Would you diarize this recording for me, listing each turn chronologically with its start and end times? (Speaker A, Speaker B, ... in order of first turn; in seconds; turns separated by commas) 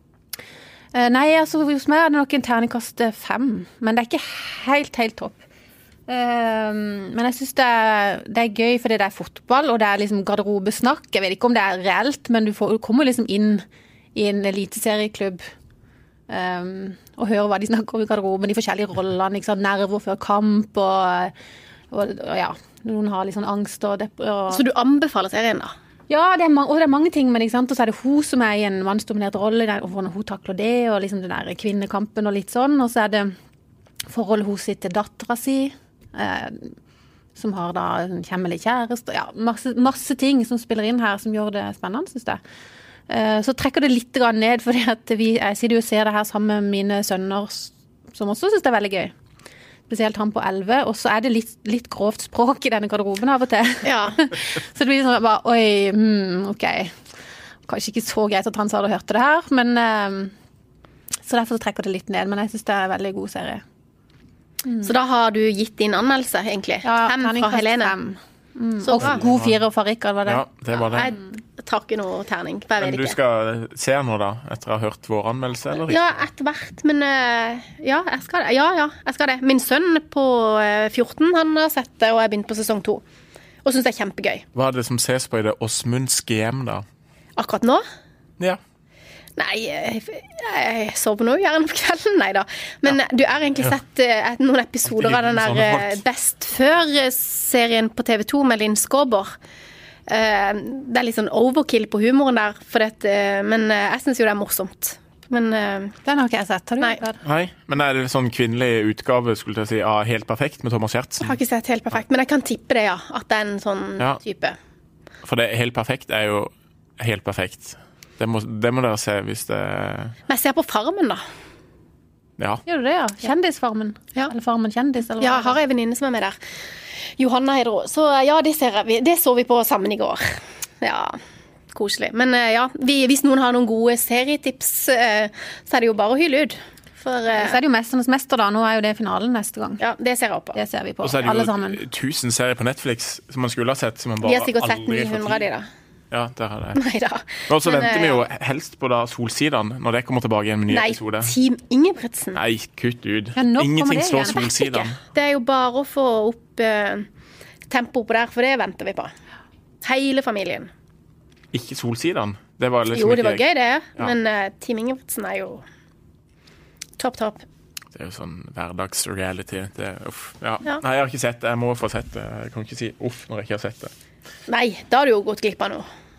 Speaker A: 0.9-5.4, Speaker A: 6.1-13.6, Speaker A: 14.2-15.4, Speaker A: 16.3-21.3, Speaker A: 21.9-24.6, Speaker B: 24.5-25.7, Speaker A: 26.1-33.3, Speaker A: 34.1-36.7, Speaker A: 37.4-42.4, Speaker A: 43.1-49.1, Speaker A: 49.9-56.9, Speaker B: 53.8-54.2, Speaker A: 57.7-60.3, Speaker A: 61.2-63.6, Speaker A: 64.7-64.9, Speaker B: 64.8-68.0, Speaker A: 66.8-70.5, Speaker B: 68.8-69.2, Speaker C: 69.0-69.6, Speaker C: 70.3-71.1, Speaker B: 70.9-73.2, Speaker C: 72.8-76.2, Speaker B: 75.9-83.0, Speaker B: 83.7-84.5, Speaker C: 84.5-86.8, Speaker B: 87.4-87.8, Speaker B: 89.4-99.3, Speaker C: 94.9-96.0, Speaker B: 100.1-106.0, Speaker A: 106.0-107.2, Speaker C: 107.2-111.4, Speaker B: 111.2-114.6, Speaker C: 115.2-120.1, Speaker B: 120.3-121.2, Speaker C: 122.4-122.6, Speaker A: 122.7-125.6, Speaker B: 125.2-126.4, Speaker B: 127.2-131.2, Speaker B: 131.7-137.6, Speaker A: 137.3-139.8, Speaker B: 139.8-140.6, Speaker A: 140.5-141.8, Speaker C: 141.0-145.5, Speaker B: 144.2-145.7, Speaker C: 146.1-146.8, Speaker B: 146.8-148.3, Speaker C: 147.5-151.3, Speaker B: 150.7-152.4, Speaker C: 152.4-155.0, Speaker A: 153.4-154.4, Speaker B: 154.3-157.1, Speaker B: 157.7-159.1, Speaker B: 159.8-160.7, Speaker C: 161.5-163.4, Speaker B: 162.9-165.6, Speaker B: 167.0-167.4, Speaker C: 167.9-173.9, Speaker B: 174.5-175.9